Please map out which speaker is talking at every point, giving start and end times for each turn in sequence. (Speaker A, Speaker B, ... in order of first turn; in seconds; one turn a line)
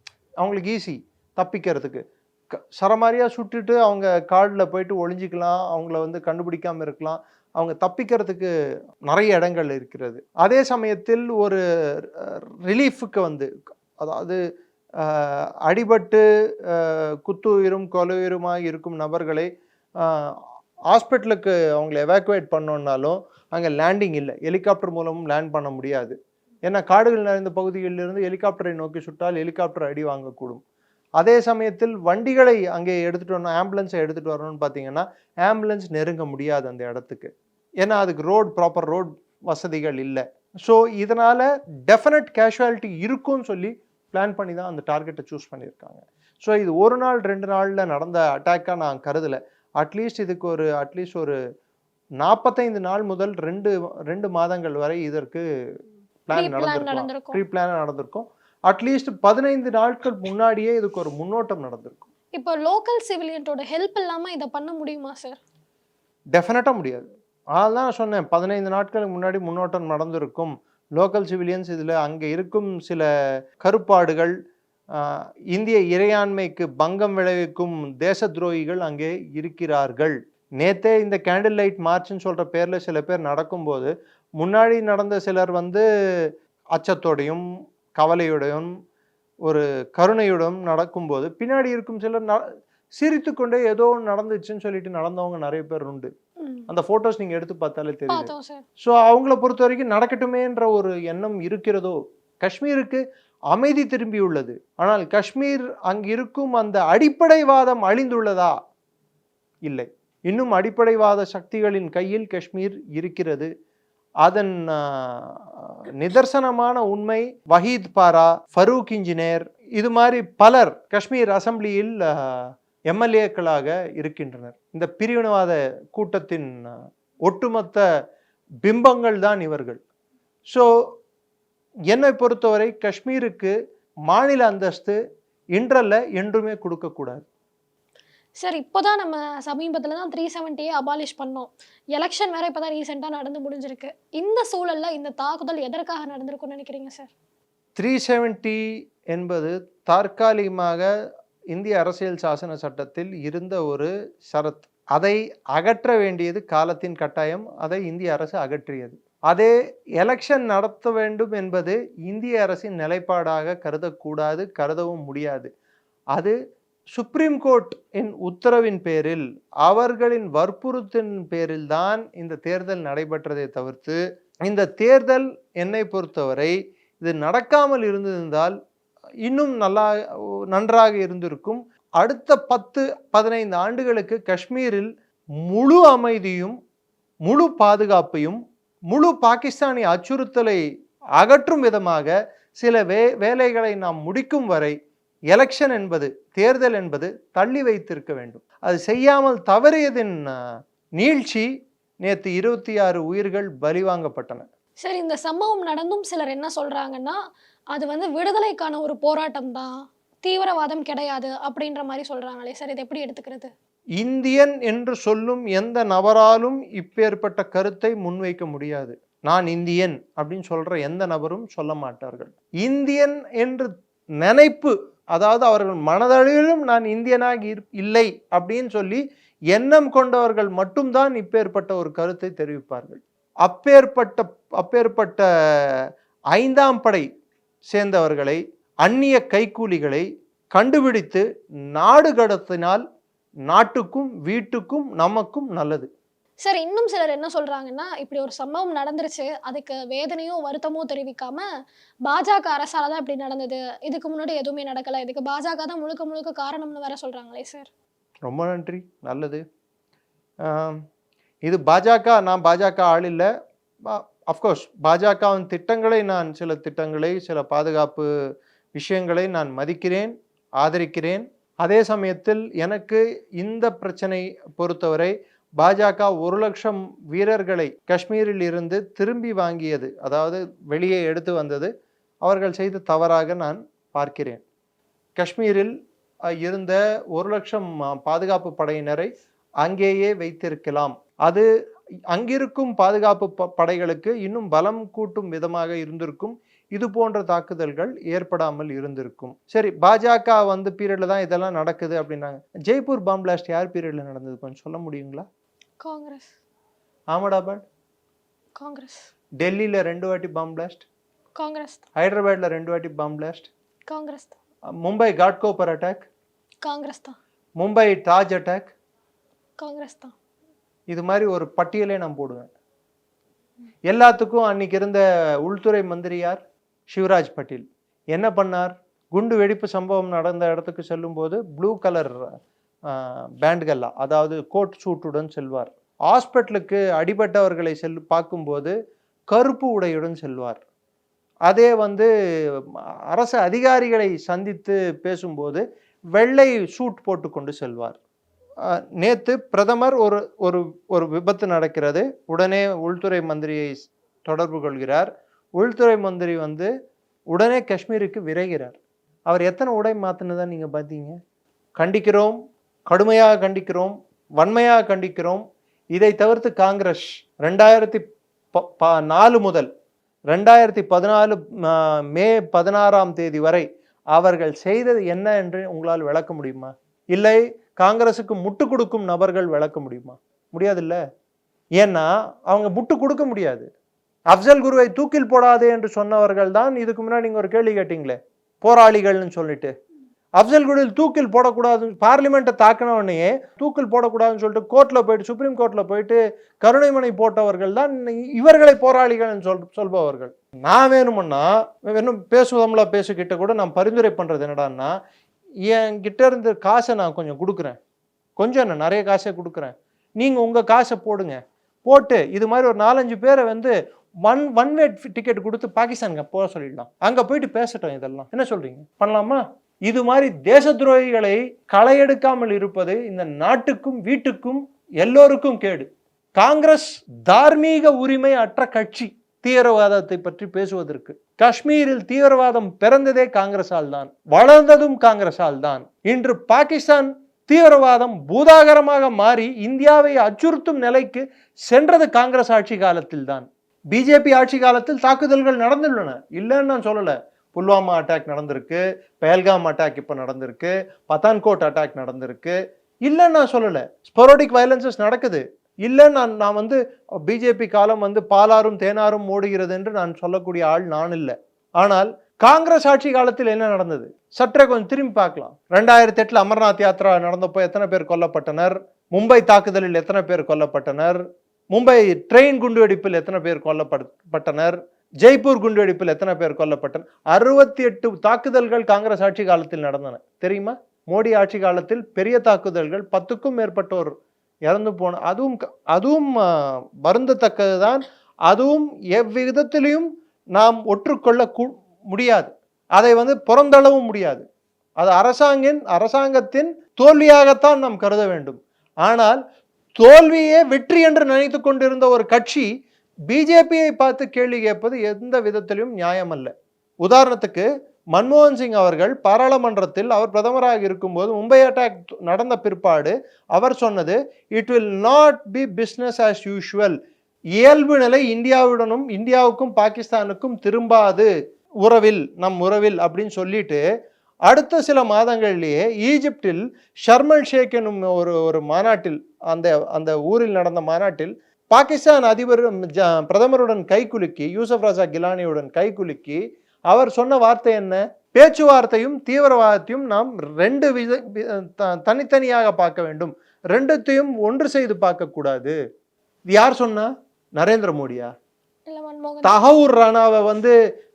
Speaker A: 0.4-8.5
Speaker A: 9.1-11.6
Speaker A: 12.2-13.5
Speaker A: 14.0-14.4
Speaker A: 15.0-19.5
Speaker A: 20.0-20.3
Speaker A: 20.9-30.6
Speaker A: 31.2-37.3
Speaker A: 37.8-51.4
Speaker A: 52.2-55.4
Speaker A: 56.2-62.1
Speaker B: 56.3-57.4
Speaker B: 62.3-65.4
Speaker A: 66.3-73.1
Speaker A: 73.6-74.3
Speaker A: 75.0-85.8
Speaker A: 86.8-87.4
Speaker A: 88.0-88.7
Speaker A: 89.5-92.4
Speaker A: 93.0-96.1
Speaker B: 96.4-96.7
Speaker A: 96.7-98.3
Speaker B: 98.1-98.6
Speaker A: 98.8-108.5
Speaker A: 109.7-113.5
Speaker A: 114.2-127.8
Speaker A: 128.6-129.8
Speaker A: 131.9-133.5
Speaker A: 134.1-135.0
Speaker A: 135.5-137.2
Speaker B: 138.4-147.1
Speaker A: 147.8-148.6
Speaker A: 149.1-150.9
Speaker A: 151.5-165.5
Speaker A: 166.9-178.6
Speaker A: 179.2-179.9
Speaker A: 180.5-184.9
Speaker A: 185.4-186.6
Speaker A: 187.3-190.6
Speaker A: 191.2-194.8
Speaker A: 195.3-200.2
Speaker A: 201.0-201.5
Speaker A: 202.0-204.4
Speaker B: 204.8-207.2
Speaker B: 207.7-209.7
Speaker B: 210.2-213.5
Speaker A: 214.0-229.0
Speaker A: 229.5-235.8
Speaker A: 236.3-237.1
Speaker A: 237.7-241.2
Speaker A: 241.8-242.8
Speaker A: 243.5-245.9
Speaker B: 246.4-251.4
Speaker B: 252.1-257.7
Speaker A: 258.3-259.4
Speaker A: 260.4-260.8
Speaker A: 261.4-263.3
Speaker A: 263.9-268.1
Speaker A: 268.8-281.7
Speaker A: 282.2-284.4
Speaker A: 285.2-285.7
Speaker A: 286.4-289.1
Speaker A: 289.6-291.4
Speaker A: 292.1-305.2
Speaker B: 305.8-306.3
Speaker A: 307.1-307.6
Speaker B: 308.6-309.1
Speaker A: 309.4-310.8
Speaker B: 311.4-311.8
Speaker A: 312.0-313.5
Speaker B: 313.9-314.3
Speaker A: 314.8-316.1
Speaker B: 316.6-317.2
Speaker A: 317.6-318.7
Speaker B: 319.6-320.1
Speaker A: 320.9-322.5
Speaker A: 323.9-332.2
Speaker A: 332.9-338.8
Speaker A: 339.3-340.6
Speaker A: 341.5-342.1
Speaker A: 343.1-345.6
Speaker A: 346.1-348.0
Speaker A: 349.0-356.7
Speaker A: 357.3-361.2
Speaker A: 361.8-362.3
Speaker A: 362.9-369.7
Speaker A: 370.3-381.0
Speaker A: 381.8-383.7
Speaker A: 384.3-389.7
Speaker A: 390.4-404.9
Speaker A: 405.7-407.8
Speaker A: 408.4-413.7
Speaker A: 414.2-471.2
Speaker A: 471.7-484.1
Speaker A: 484.6-494.4
Speaker A: 495.0-499.4
Speaker A: 500.0-502.7
Speaker A: 503.3-506.5
Speaker A: 507.0-517.0
Speaker A: 517.6-521.3
Speaker A: 521.8-523.8
Speaker A: 524.5-545.8
Speaker A: 546.5-548.3
Speaker B: 548.9-549.5
Speaker A: 549.4-550.7